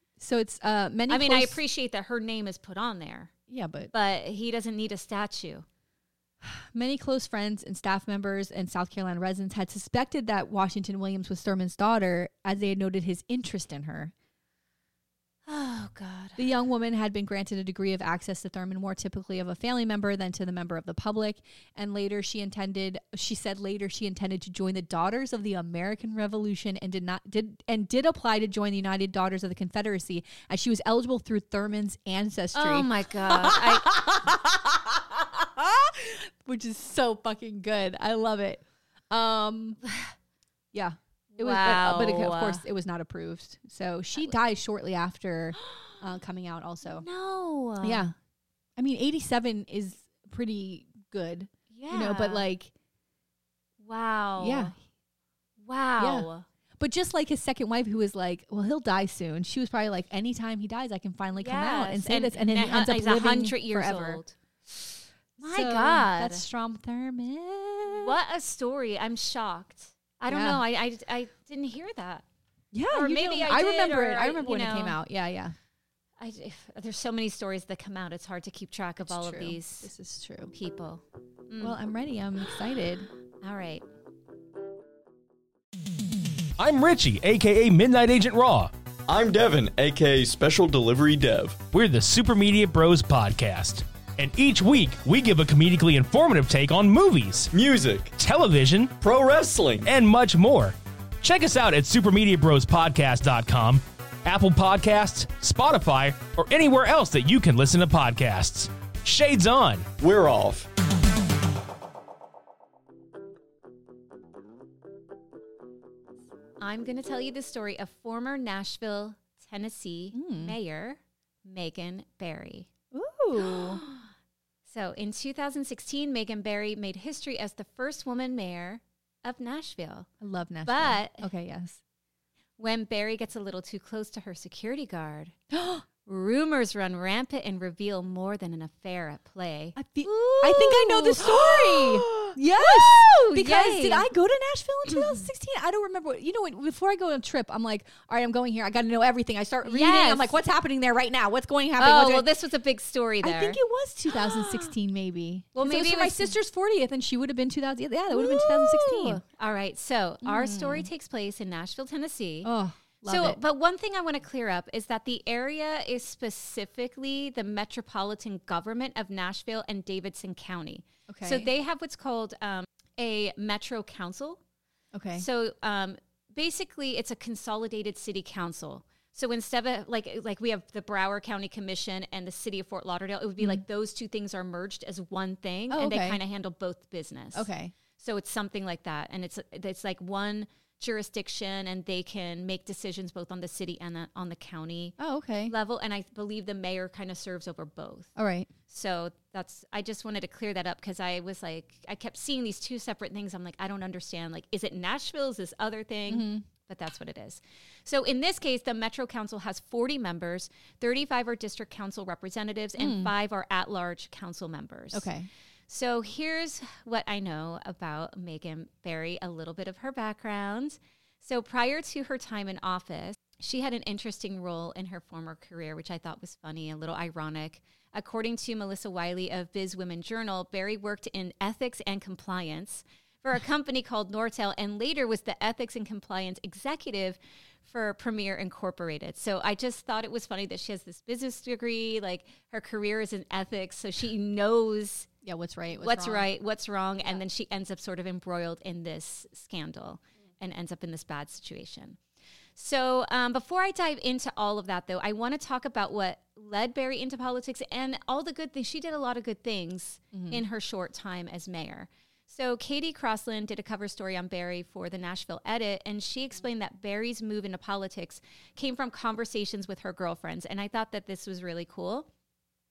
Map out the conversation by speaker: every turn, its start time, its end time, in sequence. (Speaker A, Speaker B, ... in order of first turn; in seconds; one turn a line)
Speaker A: 0.2-1.6
Speaker B: 1.1-3.3
Speaker A: 3.5-3.9
Speaker B: 3.9-5.7
Speaker A: 6.4-14.1
Speaker B: 15.5-16.5
Speaker A: 16.4-39.8
Speaker B: 32.5-33.9
Speaker B: 39.9-40.1
Speaker A: 40.7-47.1
Speaker B: 41.4-42.6
Speaker B: 45.6-45.9
Speaker B: 46.9-48.1
Speaker A: 47.8-48.1
Speaker A: 48.8-52.7
Speaker B: 51.7-52.5
Speaker B: 53.8-54.7
Speaker A: 54.4-54.8
Speaker B: 55.6-56.5
Speaker A: 56.0-56.3
Speaker A: 56.8-64.2
Speaker B: 61.4-64.3
Speaker B: 65.4-66.4
Speaker A: 65.4-68.2
Speaker B: 67.9-72.3
Speaker A: 70.3-70.6
Speaker A: 72.7-75.5
Speaker B: 72.9-75.0
Speaker B: 76.2-79.9
Speaker A: 79.0-80.5
Speaker B: 80.5-81.8
Speaker A: 81.6-83.1
Speaker B: 83.4-83.8
Speaker C: 86.6-88.7
Speaker D: 89.1-91.6
Speaker C: 91.7-97.5
Speaker D: 97.5-98.2
Speaker C: 98.2-98.9
Speaker D: 99.0-99.9
Speaker C: 99.8-109.9
Speaker D: 110.0-110.7
Speaker B: 116.6-122.7
Speaker A: 120.1-120.6
Speaker A: 122.9-123.8
Speaker B: 123.4-124.0
Speaker B: 124.7-130.1
Speaker A: 130.2-131.8
Speaker B: 130.7-131.3
Speaker B: 132.6-135.3
Speaker A: 135.5-135.8
Speaker B: 136.0-144.1
Speaker A: 139.8-152.3
Speaker B: 144.9-145.2
Speaker B: 149.7-150.4
Speaker B: 151.8-154.7
Speaker A: 153.2-159.2
Speaker B: 155.6-156.4
Speaker B: 158.1-162.5
Speaker A: 160.2-160.9
Speaker A: 162.4-163.4
Speaker B: 163.1-174.4
Speaker A: 171.1-171.5
Speaker A: 174.9-175.3
Speaker B: 175.2-195.0
Speaker A: 185.7-186.2
Speaker A: 187.3-187.7
Speaker A: 195.0-195.5
Speaker B: 195.5-198.1
Speaker A: 198.2-198.5
Speaker B: 198.7-215.1
Speaker A: 206.1-206.4
Speaker A: 212.8-213.1
Speaker A: 214.9-215.3
Speaker B: 215.7-245.1
Speaker A: 245.2-246.3
Speaker B: 245.8-252.0
Speaker B: 252.6-272.1
Speaker A: 260.1-260.4